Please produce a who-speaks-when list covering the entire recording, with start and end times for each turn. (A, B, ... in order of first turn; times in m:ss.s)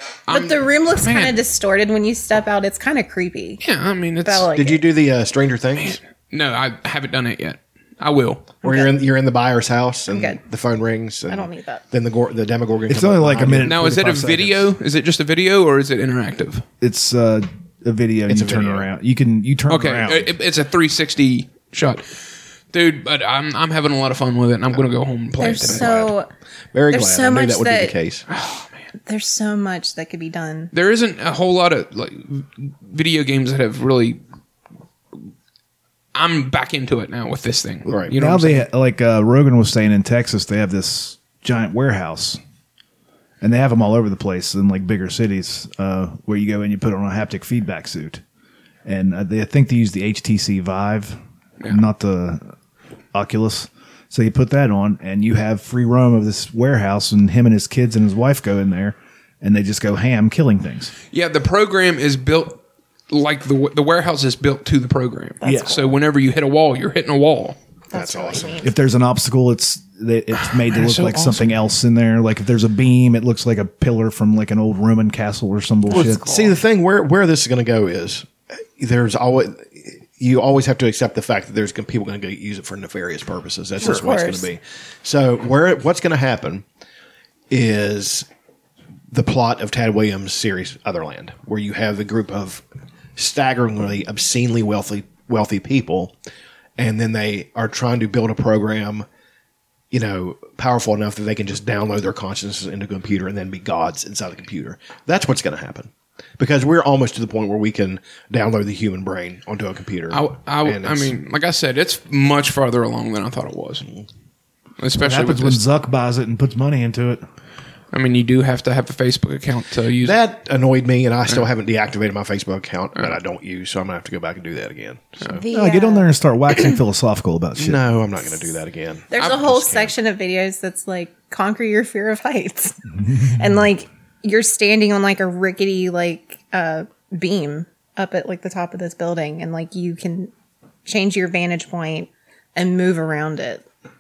0:00.3-0:01.4 A
0:00.3-0:03.6 B
0:03.6-0:04.5 A
0:04.2-0:04.9 B
0:04.5-0:06.0 C
0:05.8-0:08.5 A
0:08.6-0:09.0 B
0:08.6-0:13.8 C
0:10.1-0:10.4 B
0:11.3-0:11.8 B
0:12.9-0:14.7 D
0:13.6-0:16.6 A
0:16.8-0:20.3 D
0:18.3-0:18.9 C
0:19.7-0:22.2 A
0:22.7-0:26.1 A
0:25.4-0:26.3 B
0:25.5-0:26.1 C
0:26.7-0:28.2 C
0:26.9-0:28.0 B
0:28.3-0:28.7 A
0:29.1-0:30.7 B
0:30.7-0:34.2 A
0:36.1-0:38.7 A
0:37.9-0:38.2 C
0:38.1-0:42.4 D
0:43.4-0:48.2 D
0:48.9-0:52.5 D
0:53.1-1:00.9 D
1:01.1-1:07.6 A
1:05.4-1:05.8 D
1:05.4-1:05.9 B
1:07.9-1:08.7 B
1:07.9-1:08.6 C
1:08.6-1:16.2 D
1:10.7-1:11.5 A
1:15.9-1:26.6 C
1:15.9-1:16.5 B
1:23.8-1:24.5 B
1:27.5-1:28.3 C
1:29.1-1:32.6 C
1:33.2-1:36.1 C
1:36.8-1:39.1 C
1:39.9-1:51.2 C
1:50.1-1:53.9 A
1:54.8-1:55.6 A
1:55.0-1:57.2 D
1:57.9-2:00.2 A
2:00.0-2:05.4 C
2:05.4-2:06.1 B
2:05.5-2:07.8 D
2:07.6-2:09.9 C
2:09.1-2:20.3 B
2:20.9-2:23.6 B